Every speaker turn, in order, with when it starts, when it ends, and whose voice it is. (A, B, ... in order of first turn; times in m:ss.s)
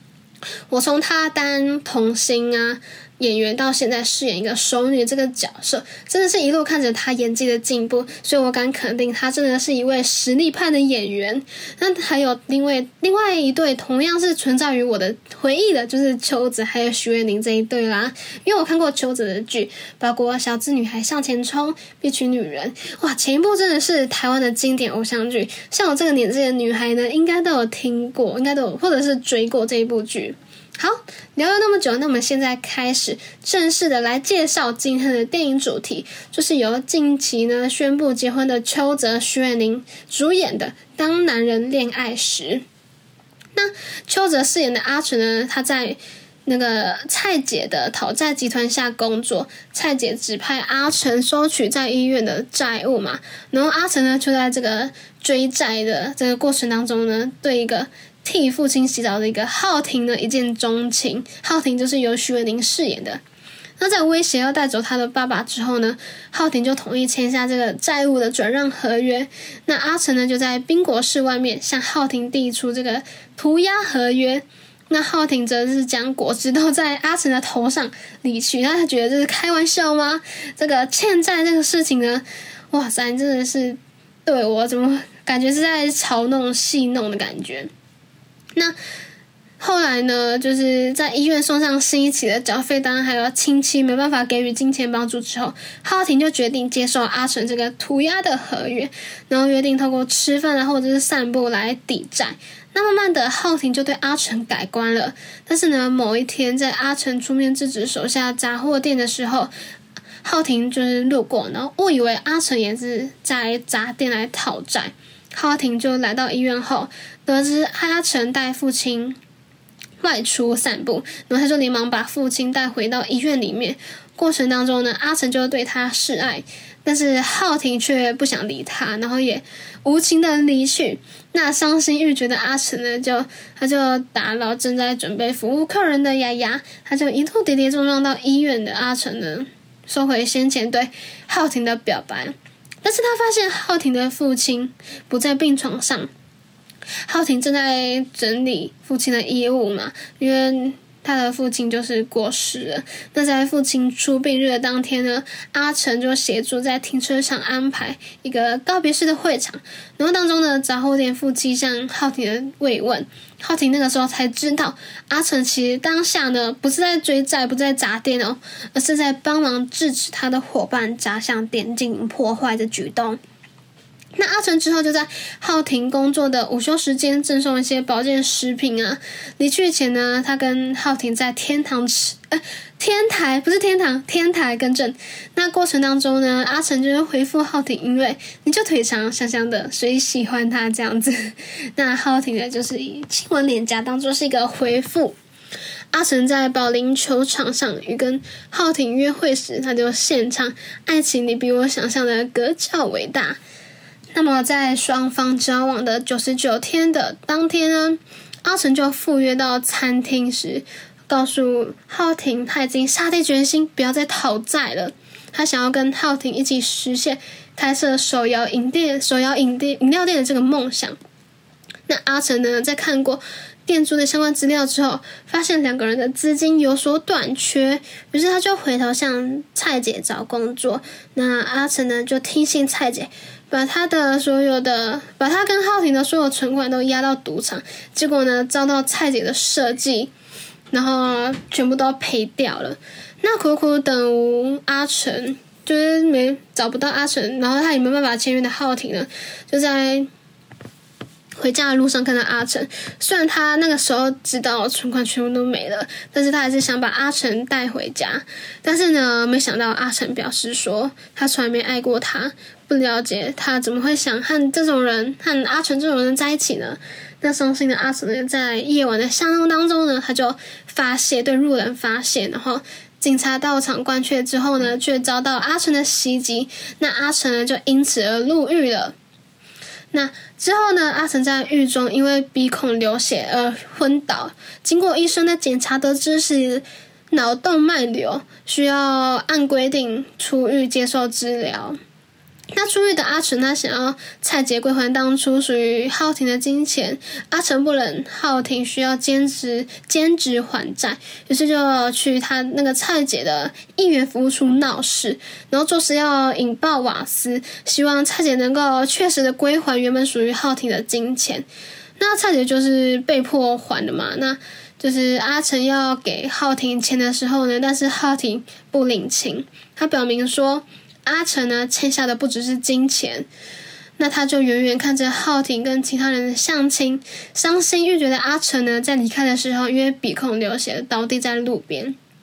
0:00.7-0:42.6 A
0:43.6-1:03.2 A
1:03.8-1:27.7 A
1:29.6-1:49.5 A
1:50.2-1:59.2 A
2:00.0-2:26.1 A
2:27.1-2:53.2 A
2:54.2-3:15.1 A
3:15.9-3:23.4 A
3:24.1-3:41.0 A
3:41.9-4:00.1 A
4:00.7-4:10.1 A
4:11.4-4:38.9 A
4:39.9-4:51.8 A
4:52.5-5:11.5 A
5:12.0-5:23.3 A
5:24.0-5:32.0 A